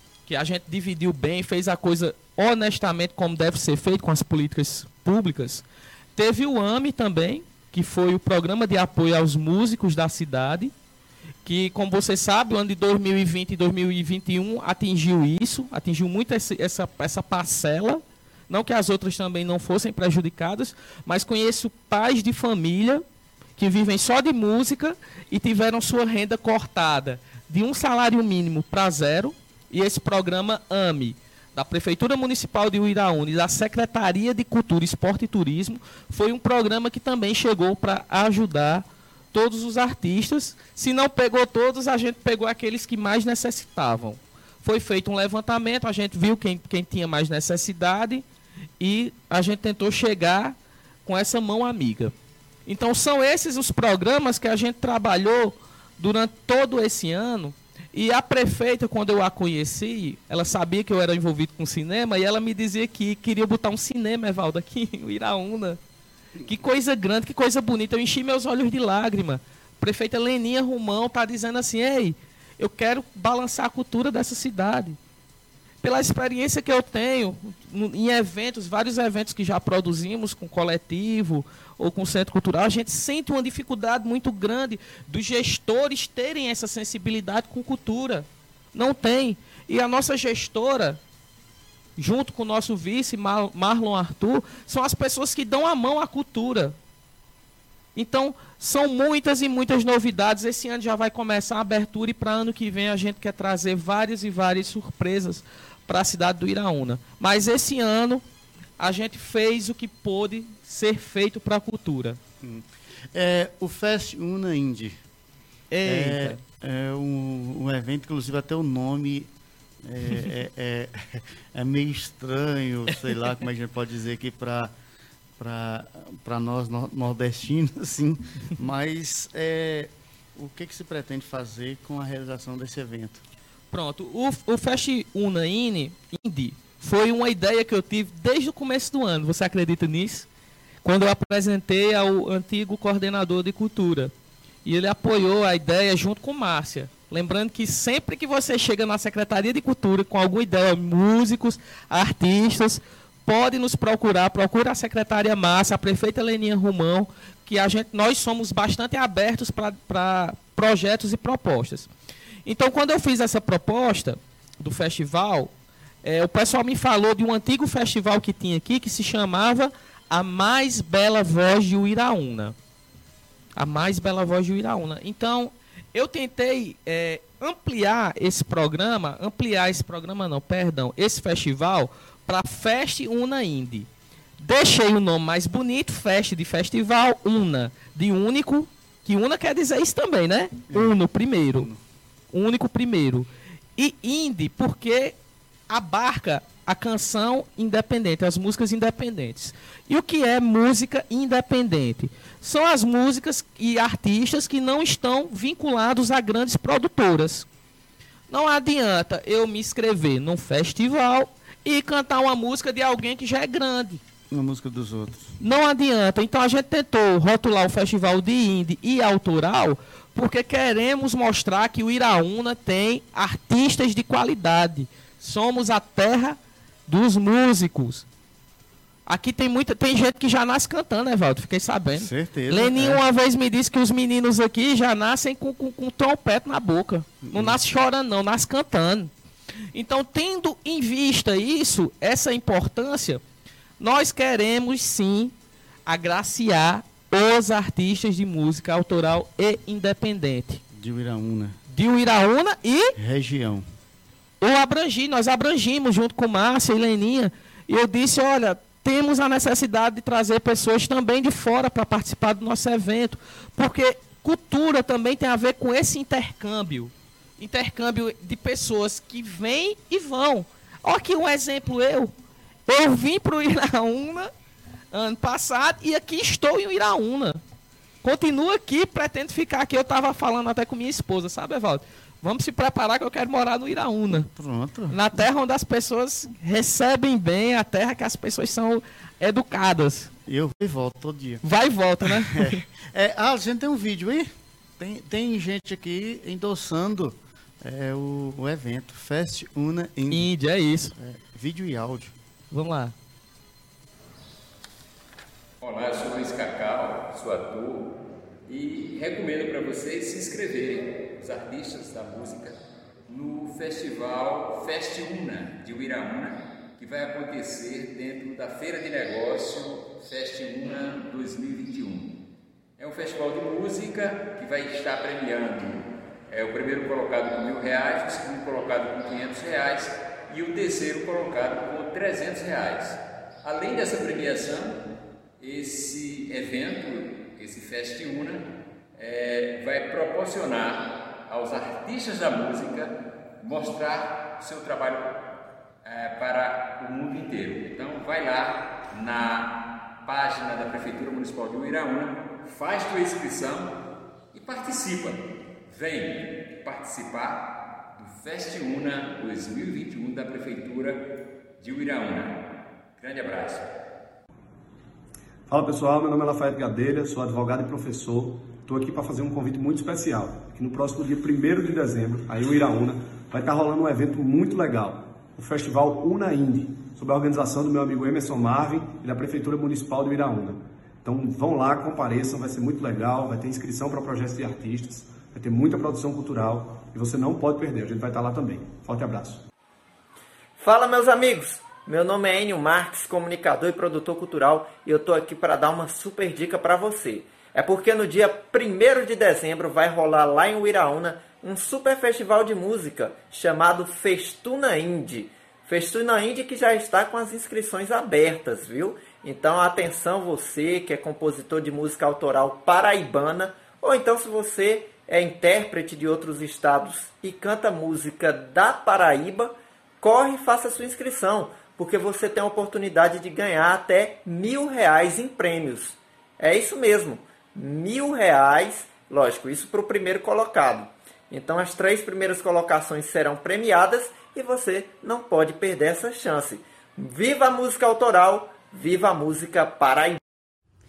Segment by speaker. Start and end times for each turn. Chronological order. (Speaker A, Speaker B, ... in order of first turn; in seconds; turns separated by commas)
Speaker A: 0.3-5.6, Speaker A: 6.2-10.7, Speaker A: 11.4-23.0, Speaker A: 23.6-48.2, Speaker A: 48.8-52.1, Speaker A: 52.7-65.8, Speaker A: 66.4-75.0, Speaker A: 75.8-91.0, Speaker A: 92.0-96.8, Speaker A: 98.0-108.2, Speaker A: 108.8-112.2, Speaker B: 112.4-115.0, Speaker A: 115.7-116.4, Speaker B: 115.8-119.3, Speaker B: 119.8-124.7, Speaker B: 125.4-133.2, Speaker A: 133.7-140.3, Speaker A: 140.8-144.1, Speaker A: 144.7-161.9, Speaker A: 162.4-165.5, Speaker A: 166.0-172.6, Speaker A: 173.6-183.9, Speaker A: 184.4-191.7, Speaker B: 190.7-190.9, Speaker A: 192.3-195.2, Speaker A: 195.7-207.5, Speaker A: 208.3-214.0, Speaker B: 214.3-215.3, Speaker A: 215.4-228.1, Speaker A: 229.1-239.1, Speaker B: 232.0-233.0, Speaker B: 237.2-237.6, Speaker A: 239.7-243.2, Speaker A: 243.8-245.3, Speaker A: 245.9-250.6, Speaker B: 250.7-251.6, Speaker A: 251.7-252.9, Speaker B: 253.0-253.7, Speaker A: 254.4-272.1, Speaker A: 272.7-274.3, Speaker A: 274.9-277.4, Speaker A: 278.0-284.3, Speaker B: 284.3-285.0, Speaker A: 284.9-290.1, Speaker B: 290.3-291.4, Speaker A: 291.4-292.6, Speaker B: 292.1-300.3, Speaker A: 300.1-300.9, Speaker B: 301.0-302.1, Speaker A: 302.5-302.9, Speaker C: 305.6-322.2, Speaker C: 322.8-334.8, Speaker C: 335.4-345.2, Speaker C: 345.8-353.8, Speaker C: 354.3-361.1, Speaker C: 361.6-362.4, Speaker C: 363.0-363.7, Speaker D: 365.5-389.4, Speaker E: 390.6-440.2